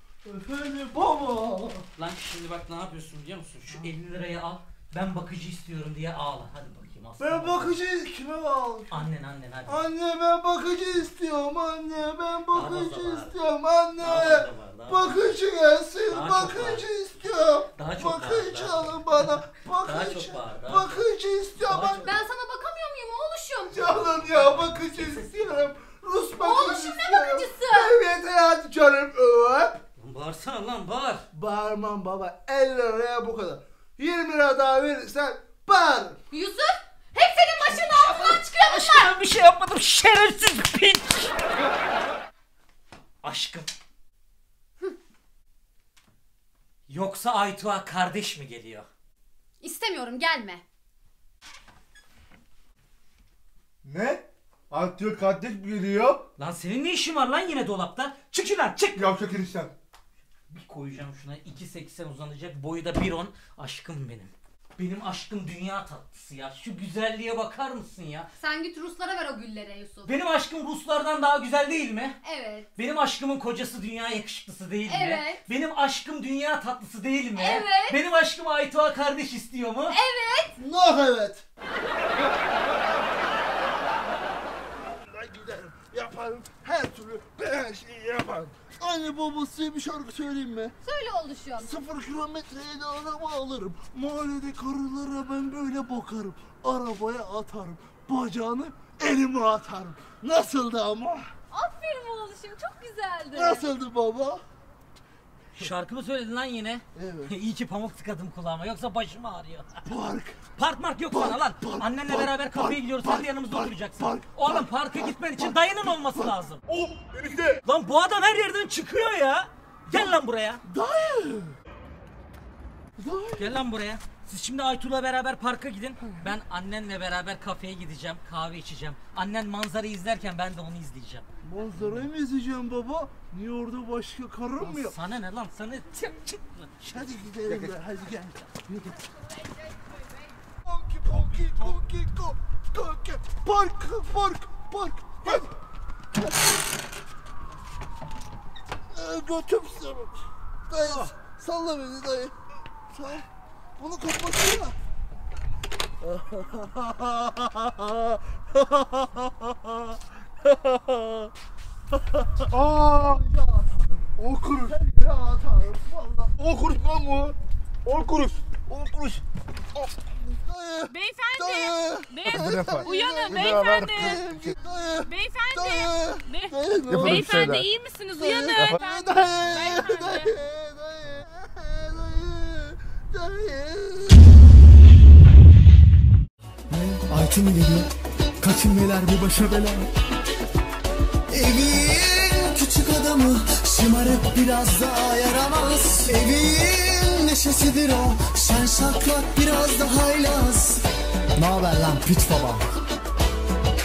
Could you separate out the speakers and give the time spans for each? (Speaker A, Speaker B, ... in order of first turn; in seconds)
Speaker A: 0.2-1.8, 7.2-9.1, 9.7-22.1, 23.7-29.8, 31.3-36.2, 80.6-81.4, 84.9-90.7, 91.6-101.3, 103.3-104.4, 106.9-107.3, 109.8-110.4, 111.1-116.3, 119.9-121.6, 123.0-123.6, 131.4-134.9, 136.9-139.0, 140.6-145.5, 146.2-146.6, 148.9-152.3, 152.9-153.3, 153.8-154.8, 156.0-159.6, 163.0-166.3, 170.2-177.6, 178.1-184.2
Speaker B: 1.9-7.8, 8.9-9.8, 12.5-13.4, 14.0-15.3, 16.1-16.8, 17.8-21.0, 21.6-22.0, 23.9-25.6, 30.0-31.2, 37.7-41.3, 43.2-43.7, 46.9-48.9, 56.4-59.1, 60.5-68.3, 70.0-72.2, 72.8-80.0, 105.5-109.8, 110.5-116.6, 117.6-120.6, 123.4-131.2, 134.6-137.1
Speaker C: 21.9-23.9, 26.4-27.9, 36.3-39.1, 49.6-50.6, 68.4-70.1, 72.2-72.7, 74.8-75.5, 77.3-78.0, 79.9-80.5, 90.8-91.7, 101.5-103.7, 177.9-179.0
Speaker D: 53.8-56.2, 58.9-59.7, 116.7-117.6, 137.5-137.7, 162.5-163.2, 164.2-164.8, 166.4-169.2, 172.2-174.6, 176.9-177.7, 178.5-178.8
Speaker E: 170.9-174.2, 175.1-180.3
Speaker F: 186.8-187.9, 188.5-189.1, 191.3-200.8, 201.4-202.6